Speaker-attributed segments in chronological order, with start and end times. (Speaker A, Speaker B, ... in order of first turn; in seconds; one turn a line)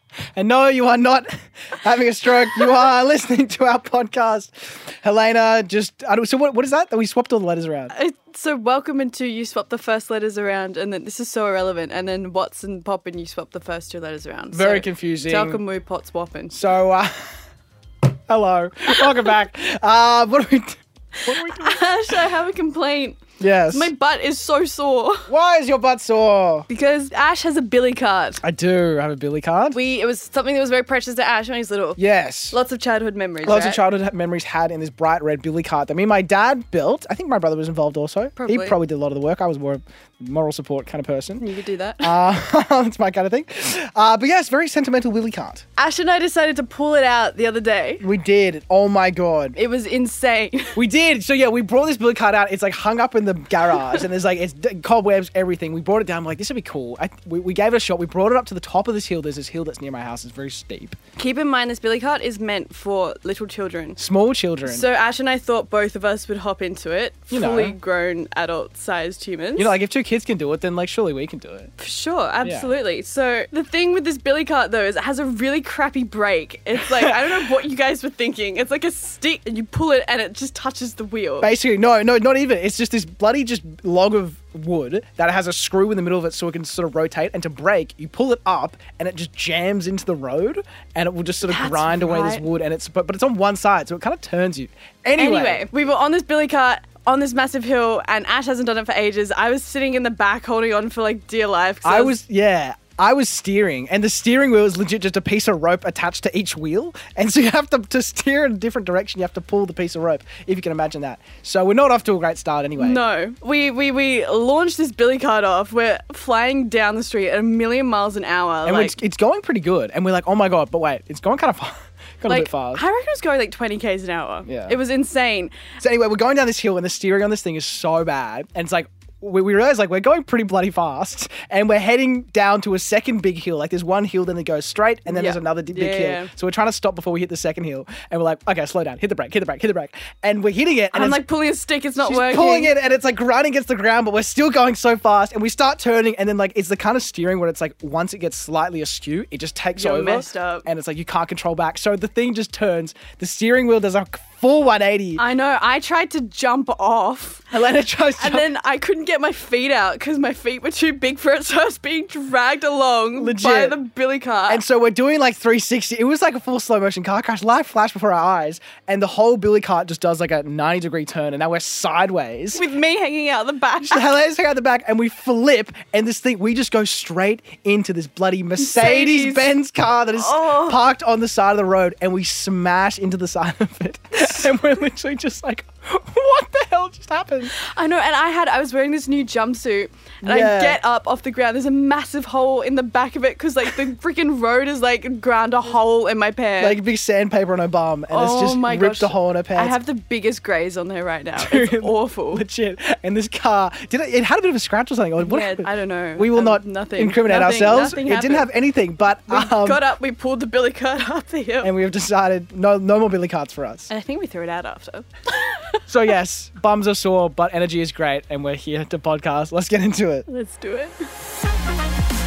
Speaker A: 0.3-7.9
Speaker B: 7.9-16.6
Speaker A: 14.5-15.6
Speaker A: 16.5-17.3
Speaker A: 18.3-22.3
Speaker B: 21.2-25.3
Speaker A: 23.4-23.9
Speaker A: 25.3-26.7
Speaker B: 26.7-28.4
Speaker A: 28.4-29.8
Speaker B: 29.7-33.8
Speaker A: 32.0-32.6
Speaker A: 33.4-41.4
Speaker B: 38.4-38.8
Speaker B: 41.4-42.2
Speaker A: 42.0-45.6
Speaker B: 45.8-48.0
Speaker A: 48.0-49.6
Speaker B: 49.5-50.8
Speaker A: 50.7-61.0
Speaker B: 61.2-64.0
Speaker A: 64.0-64.8
Speaker B: 64.6-69.7
Speaker A: 67.3-67.8
Speaker A: 69.5-71.7
Speaker B: 71.8-81.5
Speaker A: 72.4-72.7
Speaker A: 76.8-77.4
Speaker A: 81.4-95.6
Speaker B: 91.4-92.4
Speaker B: 95.2-102.2
Speaker A: 101.8-113.0
Speaker B: 112.8-119.0
Speaker A: 118.6-122.8
Speaker B: 122.3-125.5
Speaker A: 124.4-124.8
Speaker A: 125.8-141.2
Speaker B: 135.1-136.3
Speaker B: 140.9-142.7
Speaker A: 142.0-155.2
Speaker B: 149.8-150.7
Speaker B: 155.2-157.4
Speaker A: 157.5-158.5
Speaker B: 158.2-164.6
Speaker A: 163.2-163.8
Speaker A: 164.5-172.6
Speaker B: 172.5-174.1
Speaker A: 173.8-187.5
Speaker B: 178.6-179.5
Speaker B: 180.1-180.8
Speaker B: 184.2-184.5
Speaker B: 187.4-196.8
Speaker A: 190.2-190.8
Speaker A: 196.6-199.8
Speaker B: 198.1-202.4
Speaker A: 201.3-209.8
Speaker B: 205.2-208.5
Speaker B: 209.2-211.7
Speaker A: 211.6-213.9
Speaker B: 213.9-215.8
Speaker A: 215.9-220.3
Speaker B: 220.3-220.9